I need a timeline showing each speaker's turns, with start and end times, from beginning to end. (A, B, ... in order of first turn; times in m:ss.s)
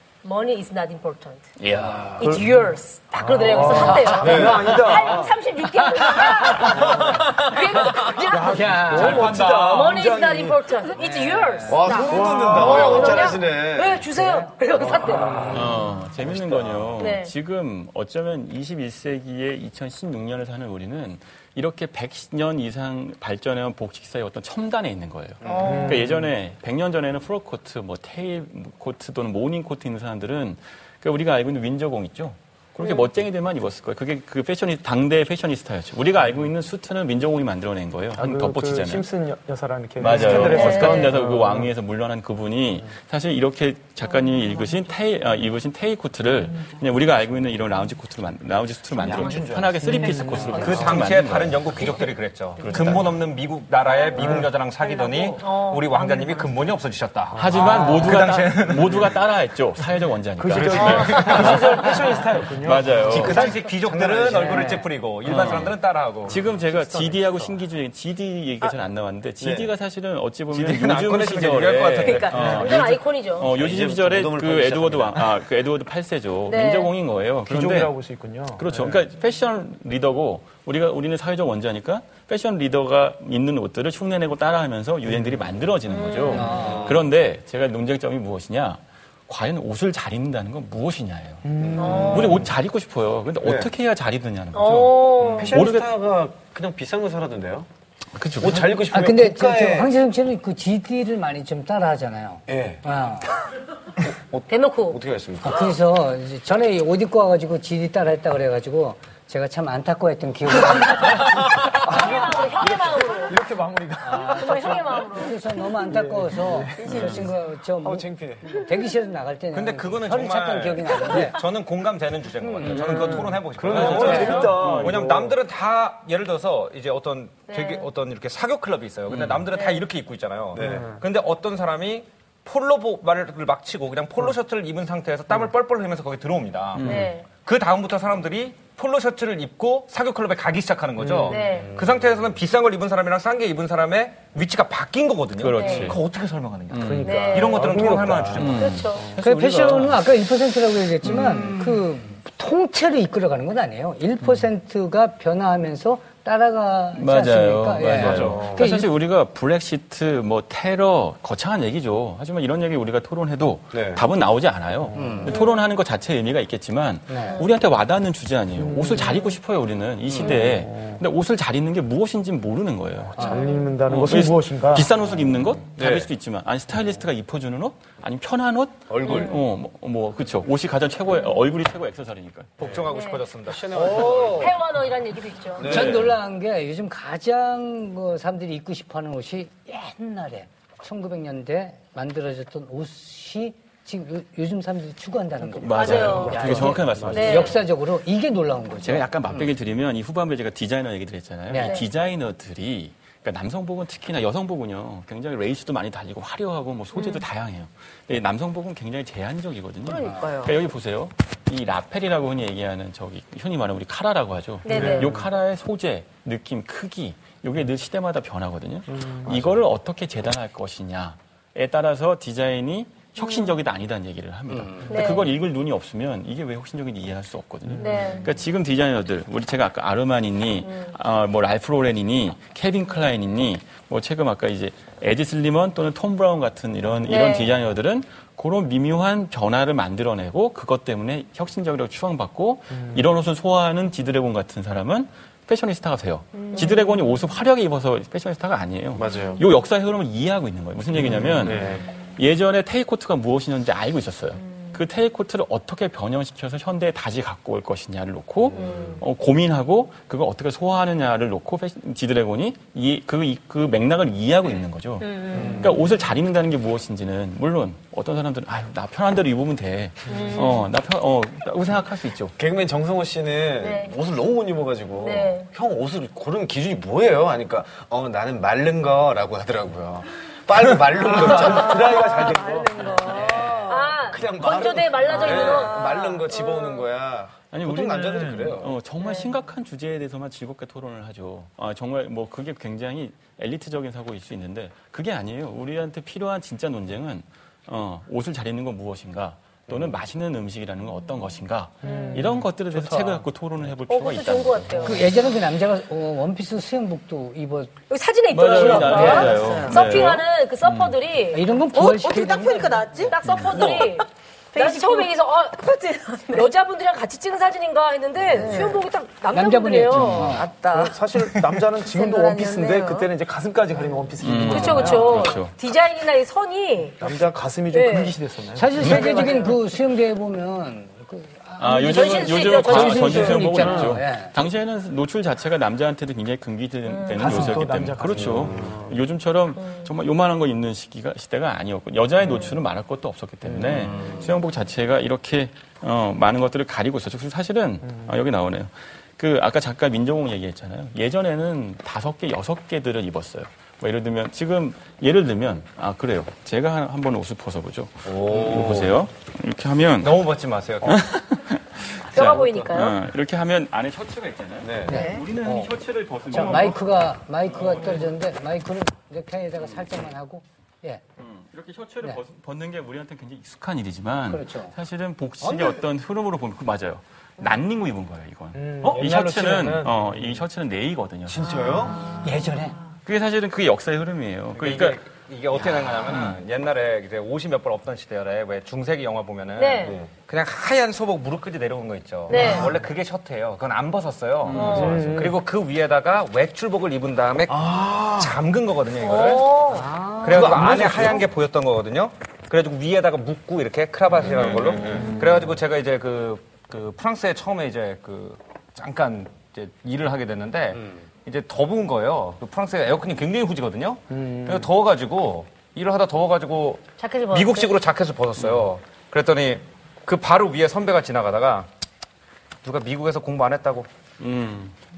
0:00.2-0:01.4 A
0:01.6-0:02.4 B
0:02.2-0:15.3 A
0:03.1-0:05.3 C
0:03.6-0:04.6 D
0:04.1-0:05.3 E
0:05.8-0:07.0 D
0:06.8-0:07.3 C
0:08.3-0:10.6 C
0:08.3-0:09.5 D
0:09.0-0:10.4 E
0:10.9-0:11.9 D
0:11.7-0:14.1 E
0:11.8-0:13.3 C
0:14.1-0:14.5 D
0:14.8-0:17.0 E
0:15.0-0:15.6 C
0:15.5-0:39.1 B
0:17.0-0:17.3 A
0:25.4-0:25.8 E
0:25.4-0:26.1 A
0:25.6-0:26.3 C
0:32.8-0:33.1 A
0:38.1-0:41.7 C
0:40.0-0:52.1 B
0:40.2-0:41.1 A
0:49.0-0:49.9 E
0:49.1-0:49.4 F
0:49.8-0:50.8 C
0:50.5-0:59.0 F
0:52.6-0:53.3 B
0:54.2-0:54.5 C
0:55.4-0:55.8 A
0:57.3-0:58.3 C
0:57.3-1:03.5 B
1:00.4-1:04.9 C
1:00.6-1:01.9 F
1:03.1-1:06.4 F
1:03.8-1:04.8 E
1:05.2-1:18.0 B
1:06.3-1:07.6 C
1:09.4-1:09.7 E
1:10.6-1:12.5 F
1:12.3-1:13.5 A
1:13.5-1:15.4 E
1:16.4-1:16.9 A
1:17.4-1:19.0 C
1:18.5-1:31.4 B
1:25.9-1:26.5 A
1:26.3-1:26.9 D
1:26.5-1:26.9 C
1:26.6-1:27.0 E
1:31.4-1:32.5 C
1:31.6-1:32.1 E
1:31.8-1:32.4 A
1:32.0-1:35.9 B
1:33.4-1:33.7 E
1:34.5-1:35.6 A
1:35.3-1:37.7 E
1:38.1-1:38.8 B
1:38.4-1:39.9 E
1:38.9-1:43.3 D
1:42.5-1:42.8 E
1:44.3-1:45.7 E
1:44.5-1:45.0 A
1:45.4-1:51.4 D
1:51.3-1:55.1 C
1:51.8-1:53.4 A
1:54.0-2:01.4 D
1:54.2-1:55.3 A
1:55.8-1:57.2 C
1:56.8-1:57.3 G
1:56.9-1:57.2 B
1:57.8-1:58.4 E
1:59.5-2:28.6 F
2:02.4-2:03.3 D
2:02.6-2:05.1 B
2:02.8-2:05.4 C
2:04.0-2:04.5 D
2:07.5-2:07.9 A
2:09.1-2:09.5 B
2:09.5-2:09.8 A
2:10.5-2:11.0 C
2:10.6-2:10.9 E
2:16.7-2:17.2 B
2:16.8-2:17.2 A
2:21.0-2:21.8 C
2:21.2-2:21.7 A
2:25.3-2:26.0 B
2:25.5-2:25.9 A
2:26.7-2:27.3 B
2:26.7-2:29.1 C
2:27.0-2:27.6 A
2:28.3-2:30.0 B
2:28.4-2:29.1 A
2:29.2-2:38.9 D
2:31.0-2:31.6 B
2:36.9-3:02.7 B
2:38.1-2:38.7 E
2:43.7-2:44.0 E
2:44.8-2:45.4 C
2:44.9-2:45.4 D
2:45.3-2:45.6 A
2:47.1-2:47.4 D
2:48.6-2:49.2 C
2:50.1-2:51.0 C
2:53.1-2:54.9 C
2:53.2-2:53.4 D
2:55.8-2:56.1 E
2:58.9-2:59.4 E
2:59.0-2:59.3 A
3:02.6-3:03.9 F
3:02.6-3:02.9 E
3:02.9-3:03.2 A
3:03.5-3:04.6 E
3:03.8-3:04.5 C
3:04.0-3:05.9 A
3:05.5-3:06.2 E
3:05.6-3:19.5 D
3:15.6-3:17.6 B
3:15.7-3:17.6 A
3:16.2-3:17.2 C
3:18.8-4:32.3 B
3:21.5-3:21.8 D
3:21.6-3:21.9 A
3:29.8-3:30.6 G
3:34.6-3:35.1 A
3:34.7-3:35.1 E
3:43.2-3:43.5 A
3:44.5-3:45.0 D
3:44.9-3:45.3 A
3:47.7-3:47.9 C
3:47.8-3:48.2 A
3:57.1-3:57.5 A
4:06.4-4:06.8 G
4:06.5-4:06.9 A
4:08.9-4:09.4 E
4:11.0-4:11.8 E
4:18.4-4:19.0 E
4:25.0-4:25.7 A
4:25.3-4:25.7 E
4:30.1-4:30.7 A
4:32.4-4:43.2 E
4:33.6-4:33.9 A
4:35.0-4:35.5 A
4:41.0-4:43.9 G
4:41.2-4:42.8 C
4:43.0-4:43.7 D
4:43.3-4:46.8 A
4:44.0-4:48.7 E
4:45.0-4:46.3 G
4:47.5-5:05.1 B
4:59.7-5:00.0 E
5:01.8-5:02.4 A
5:01.8-5:03.2 C
5:03.9-5:05.1 A
5:04.8-5:07.8 D
5:07.9-5:11.4 A
5:08.3-5:11.0 B
5:08.4-5:09.3 D
5:09.1-5:09.8 G
5:11.3-5:13.0 D
5:11.7-5:16.5 G
5:13.0-5:20.3 A
5:13.2-5:13.8 B
5:18.3-5:18.8 G
5:19.3-5:20.5 D
5:19.9-5:21.0 G
5:20.7-5:25.2 C
5:21.8-5:23.1 G
5:24.2-5:25.5 B
5:24.4-5:27.0 A
5:27.0-5:29.5 C
5:27.7-5:28.2 A
5:28.5-5:34.3 D
5:28.8-5:29.6 A
5:28.8-5:29.0 B
5:31.6-6:00.3 B
5:31.8-5:33.7 A
5:33.5-5:33.9 C
5:36.9-5:37.2 A
5:37.1-5:39.0 C
5:37.3-5:37.6 D
5:38.1-5:38.8 E
5:42.2-5:42.6 A
5:43.4-5:43.9 C
5:58.0-5:58.9 E
6:00.0-6:01.0 F
6:00.8-6:06.9 B
6:02.1-6:03.0 A
6:04.6-6:05.0 E
6:04.9-6:05.7 D
6:04.9-6:05.2 G
6:06.3-6:11.0 D
6:07.5-6:08.1 B
6:09.6-6:10.0 B
6:11.2-6:21.6 B
6:14.3-6:14.7 D
6:18.5-6:20.4 C
6:21.2-6:22.0 E
6:22.2-6:22.8 D
6:23.0-6:25.1 B
6:24.5-7:01.7 F
6:25.6-6:26.4 B
6:29.6-6:30.0 A
6:29.8-6:30.1 E
6:32.3-6:32.7 A
6:34.4-6:35.1 B
6:34.5-6:35.0 A
6:34.8-6:35.4 C
6:37.5-6:38.4 E
6:39.0-6:39.9 A
6:40.0-6:41.2 C
6:40.2-6:41.3 E
6:44.3-6:45.4 E
6:45.0-6:45.5 C
6:54.1-6:54.7 C
6:57.0-6:57.7 A
7:02.6-7:03.9 F
7:04.2-7:04.7 B